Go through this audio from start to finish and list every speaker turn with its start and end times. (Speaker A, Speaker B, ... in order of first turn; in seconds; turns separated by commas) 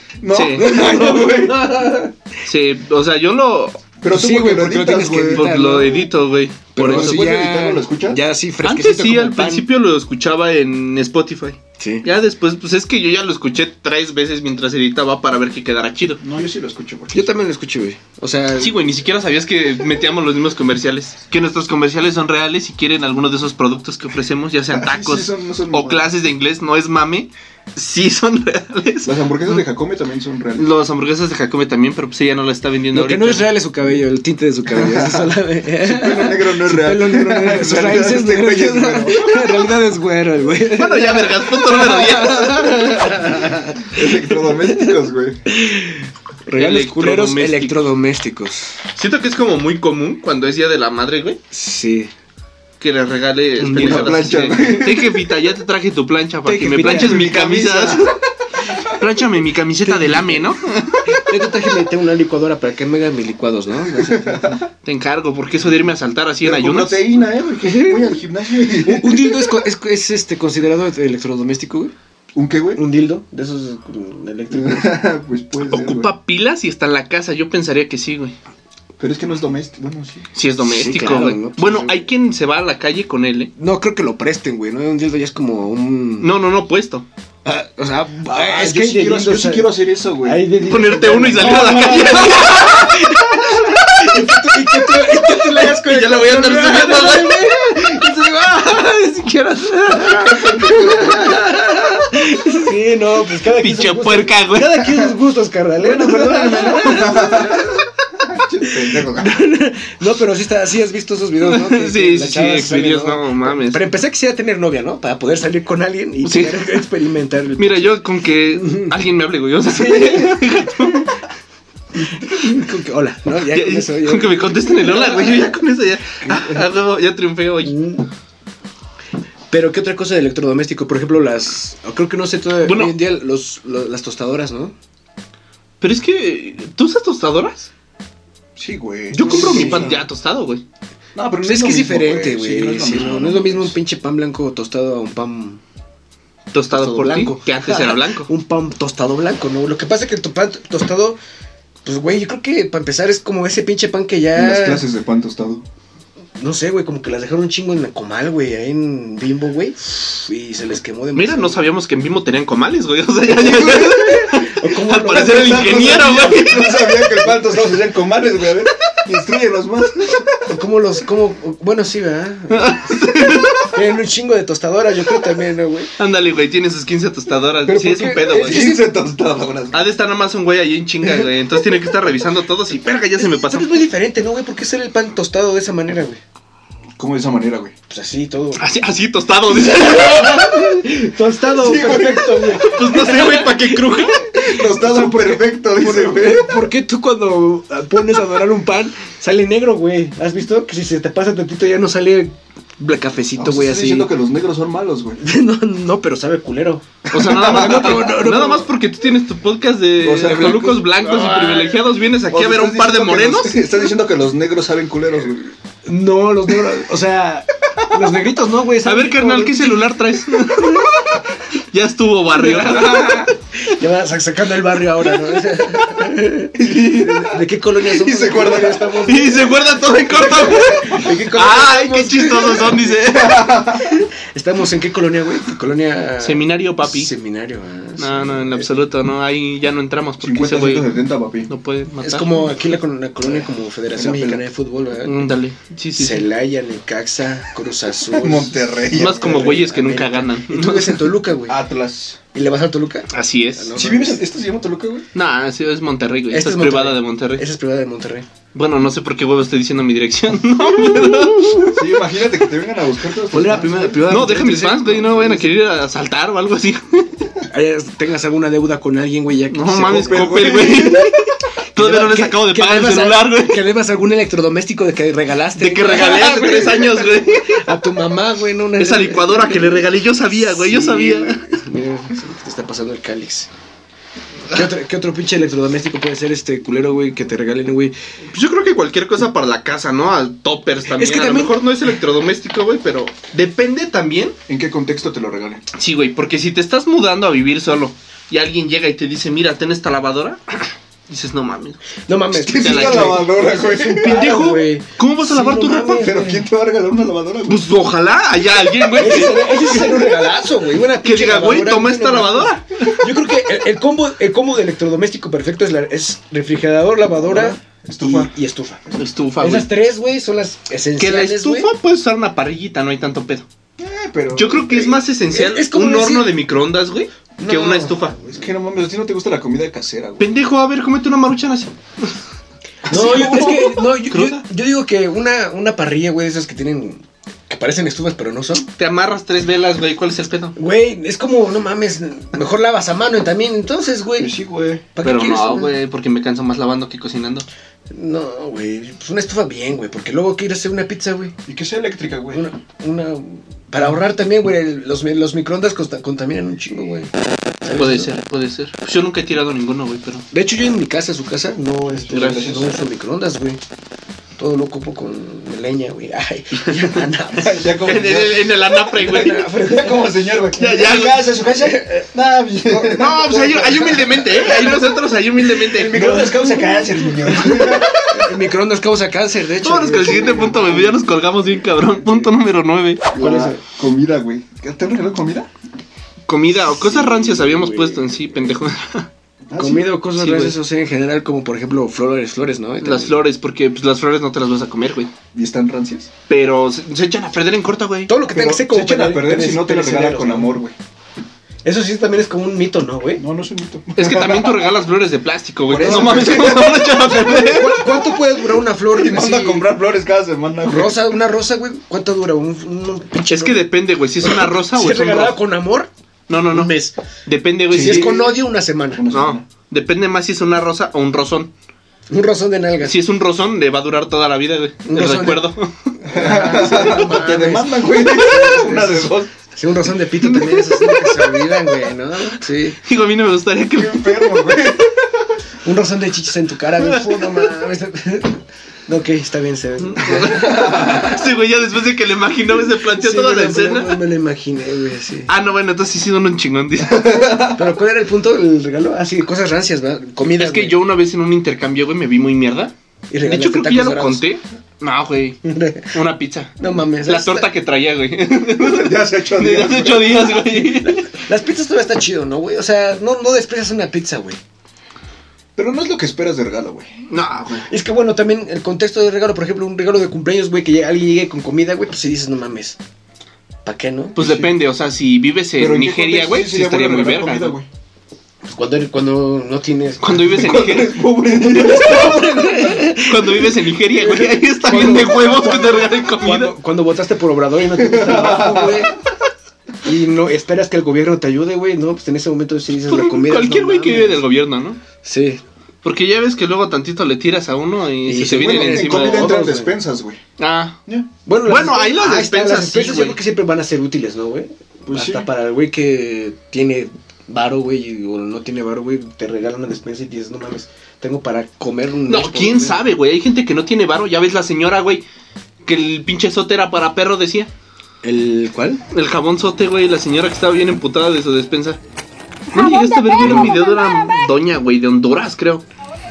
Speaker A: 0.2-1.8, Speaker B: 0.3-0.7, Speaker C: 0.5-2.1, Speaker B: 2.5-3.8, Speaker A: 4.0-5.5, Speaker C: 4.1-6.1, Speaker B: 5.3-7.2, Speaker C: 6.8-9.7, Speaker A: 6.8-8.2, Speaker B: 8.6-16.2, Speaker C: 11.8-12.1, Speaker A: 16.2-17.3, Speaker C: 17.1-18.8, Speaker B: 18.6-29.6, Speaker A: 24.7-26.1, Speaker A: 29.1-30.7, Speaker B: 30.6-33.5, Speaker C: 32.9-44.9, Speaker A: 34.7-39.4, Speaker B: 40.7-43.3, Speaker A: 43.9-45.4, Speaker C: 45.5-48.8, Speaker B: 46.5-47.8, Speaker B: 49.0-51.4, Speaker C: 51.5-52.1, Speaker B: 52.8-58.1, Speaker C: 53.6-54.8, Speaker A: 53.7-55.3, Speaker C: 56.4-57.3, Speaker A: 56.8-58.2, Speaker B: 59.0-61.2, Speaker C: 59.8-64.6, Speaker A: 64.0-64.7, Speaker B: 64.8-67.0, Speaker A: 66.4-69.5, Speaker C: 67.6-68.2, Speaker C: 68.8-71.9, Speaker A: 72.3-72.8, Speaker C: 72.8-75.0, Speaker A: 74.5-76.1, Speaker B: 75.7-78.3, Speaker A: 79.0-80.3, Speaker B: 80.3-83.5, Speaker C: 80.6-82.1, Speaker C: 83.6-86.3, Speaker B: 86.2-87.1, Speaker C: 87.5-107.8, Speaker A: 88.3-90.4, Speaker B: 90.7-93.1, Speaker B: 95.2-97.5, Speaker A: 100.1-101.4, Speaker B: 103.6-105.0, Speaker A: 105.8-109.4, Speaker C: 108.6-118.0, Speaker B: 111.4-113.8, Speaker B: 116.2-116.6, Speaker B: 117.6-121.1, Speaker C: 118.5-118.9, Speaker C: 119.7-121.0, Speaker C: 121.9-125.5, Speaker B: 123.5-127.8, Speaker C: 126.2-126.7, Speaker C: 127.6-128.1, Speaker C: 129.5-134.7, Speaker B: 132.6-133.0, Speaker B: 135.8-137.7, Speaker A: 138.6-140.0, Speaker C: 139.1-140.0, Speaker B: 139.2-140.6, Speaker A: 141.2-143.7, Speaker C: 141.4-145.6, Speaker B: 146.5-148.3, Speaker C: 146.7-151.2, Speaker C: 151.8-154.9, Speaker A: 154.3-155.7, Speaker C: 156.4-161.6, Speaker B: 161.2-166.9, Speaker A: 163.4-163.9, Speaker C: 163.5-166.4, Speaker A: 165.1-170.5, Speaker C: 167.2-167.8, Speaker C: 170.5-172.8, Speaker B: 172.5-173.7, Speaker C: 173.7-175.9, Speaker B: 176.0-178.7, Speaker C: 177.7-178.9, Speaker A: 178.3-179.9, Speaker B: 179.7-183.8, Speaker C: 183.2-186.2, Speaker A: 187.0-187.8, Speaker C: 187.9-188.7, Speaker B: 188.6-190.7, Speaker C: 189.5-204.1, Speaker A: 191.6-192.7, Speaker B: 192.6-194.2, Speaker A: 194.4-196.6, Speaker A: 203.4-205.2, Speaker C: 205.2-208.7, Speaker B: 207.1-213.6, Speaker A: 207.1-208.2, Speaker A: 210.0-210.9, Speaker C: 210.3-211.8, Speaker A: 212.3-215.5, Speaker C: 215.8-220.9, Speaker B: 218.8-220.8, Speaker B: 221.7-223.3, Speaker C: 222.3-233.0, Speaker A: 226.6-229.0, Speaker B: 229.1-233.5, Speaker A: 230.2-231.1, Speaker A: 233.0-233.9, Speaker C: 233.8-238.7, Speaker B: 236.2-237.1, Speaker B: 238.0-240.9, Speaker A: 240.2-241.5, Speaker B: 241.5-242.3, Speaker C: 242.0-245.3, Speaker A: 243.3-244.4, Speaker B: 245.0-246.2, Speaker C: 246.0-251.6, Speaker A: 248.1-249.5, Speaker B: 248.9-251.0, Speaker A: 251.5-252.2, Speaker C: 252.3-254.2, Speaker B: 253.1-253.7, Speaker A: 253.8-255.1, Speaker B: 255.1-257.4, Speaker C: 256.3-258.3, Speaker B: 258.5-261.7, Speaker C: 261.1-261.7, Speaker A: 261.7-264.0, Speaker C: 263.3-265.6, Speaker B: 264.0-267.2, Speaker C: 267.5-270.9, Speaker B: 269.5-273.6, Speaker A: 269.9-271.1, Speaker C: 271.8-283.5, Speaker B: 275.6-277.6, Speaker B: 278.8-281.4, Speaker C: 284.5-287.9, Speaker B: 288.3-294.4, Speaker C: 290.9-291.6, Speaker A: 294.5-295.6, Speaker B: 295.7-301.8, Speaker C: 302.1-306.5, Speaker A: 302.4-304.5, Speaker B: 302.6-303.2, Speaker B: 304.0-306.1, Speaker A: 305.9-307.7, Speaker B: 307.5-310.0, Speaker C: 308.9-318.8, Speaker B: 311.0-313.0, Speaker A: 317.3-318.3, Speaker B: 318.9-319.7, Speaker C: 319.4-321.7, Speaker B: 321.0-323.5, Speaker A: 323.8-324.9, Speaker B: 324.4-328.2, Speaker C: 324.8-326.3, Speaker C: 327.4-328.5, Speaker A: 328.3-330.3, Speaker B: 330.2-332.1, Speaker A: 332.9-333.8, Speaker C: 332.9-338.7, Speaker B: 332.9-334.4, Speaker B: 338.8-340.6, Speaker C: 340.6-344.3, Speaker A: 344.2-344.9, Speaker C: 344.9-345.7, Speaker B: 345.0-347.5, Speaker C: 347.9-351.4, Speaker A: 351.5-352.4, Speaker C: 352.3-357.1, Speaker C: 357.6-358.1, Speaker B: 357.7-360.2, Speaker C: 360.3-363.6, Speaker A: 362.0-362.8, Speaker B: 362.1-362.6, Speaker C: 364.4-367.8, Speaker A: 367.4-374.8, Speaker B: 367.8-369.4, Speaker C: 368.9-370.3, Speaker B: 370.6-371.2, Speaker C: 371.5-372.1, Speaker C: 372.7-373.2, Speaker B: 372.9-376.2, Speaker C: 374.4-374.8, Speaker C: 375.6-381.0, Speaker A: 375.7-378.2, Speaker B: 379.6-383.1, Speaker A: 383.1-385.5, Speaker C: 383.2-383.6, Speaker B: 386.3-389.1, Speaker C: 386.8-388.4, Speaker A: 389.5-389.9, Speaker C: 389.6-393.2, Speaker B: 390.2-390.6, Speaker B: 392.8-395.1, Speaker A: 395.3-396.1, Speaker B: 396.3-398.1, Speaker C: 398.1-400.6, Speaker A: 398.3-400.8, Speaker C: 401.6-403.2, Speaker A: 403.2-404.7, Speaker B: 404.0-407.9, Speaker A: 405.7-407.1, Speaker C: 405.8-409.7, Speaker A: 408.9-411.1, Speaker C: 410.6-413.7, Speaker B: 413.3-415.4, Speaker C: 414.2-415.9, Speaker B: 416.3-416.7, Speaker C: 416.5-416.9, Speaker B: 417.3-418.2, Speaker A: 417.7-418.3, Speaker C: 417.7-419.1, Speaker A: 418.9-419.5, Speaker B: 419.1-421.5, Speaker C: 422.1-423.0, Speaker B: 422.8-425.9, Speaker C: 424.9-425.5, Speaker C: 426.1-432.8, Speaker A: 426.1-429.3, Speaker B: 430.2-431.6, Speaker B: 432.8-434.7, Speaker A: 433.7-435.0, Speaker C: 435.6-441.2, Speaker B: 436.8-437.4, Speaker B: 439.8-444.0, Speaker C: 442.8-445.3, Speaker B: 445.3-447.4, Speaker A: 446.9-447.6, Speaker C: 447.5-450.8, Speaker B: 450.3-455.4, Speaker C: 453.1-454.2, Speaker C: 455.4-455.9, Speaker B: 455.9-461.1, Speaker C: 456.6-457.5, Speaker A: 458.6-460.4, Speaker C: 460.6-464.4, Speaker A: 465.6-466.9, Speaker B: 467.1-467.7, Speaker C: 467.7-472.8, Speaker C: 473.6-474.4, Speaker B: 474.2-477.6, Speaker A: 475.6-477.7, Speaker C: 478.5-480.4, Speaker B: 480.0-481.0, Speaker A: 480.3-482.7, Speaker C: 481.3-488.9, Speaker B: 482.9-486.5, Speaker A: 487.8-488.9, Speaker C: 489.8-494.2, Speaker B: 492.9-494.8, Speaker C: 495.0-495.4, Speaker B: 495.8-499.3, Speaker C: 498.1-499.8, Speaker A: 498.4-500.2, Speaker B: 500.4-500.8, Speaker C: 501.3-512.9, Speaker B: 501.4-503.2, Speaker A: 504.9-505.3, Speaker B: 512.1-515.0, Speaker B: 515.6-517.5, Speaker C: 518.0-518.8, Speaker B: 518.9-521.8, Speaker B: 522.5-525.6, Speaker C: 523.2-523.6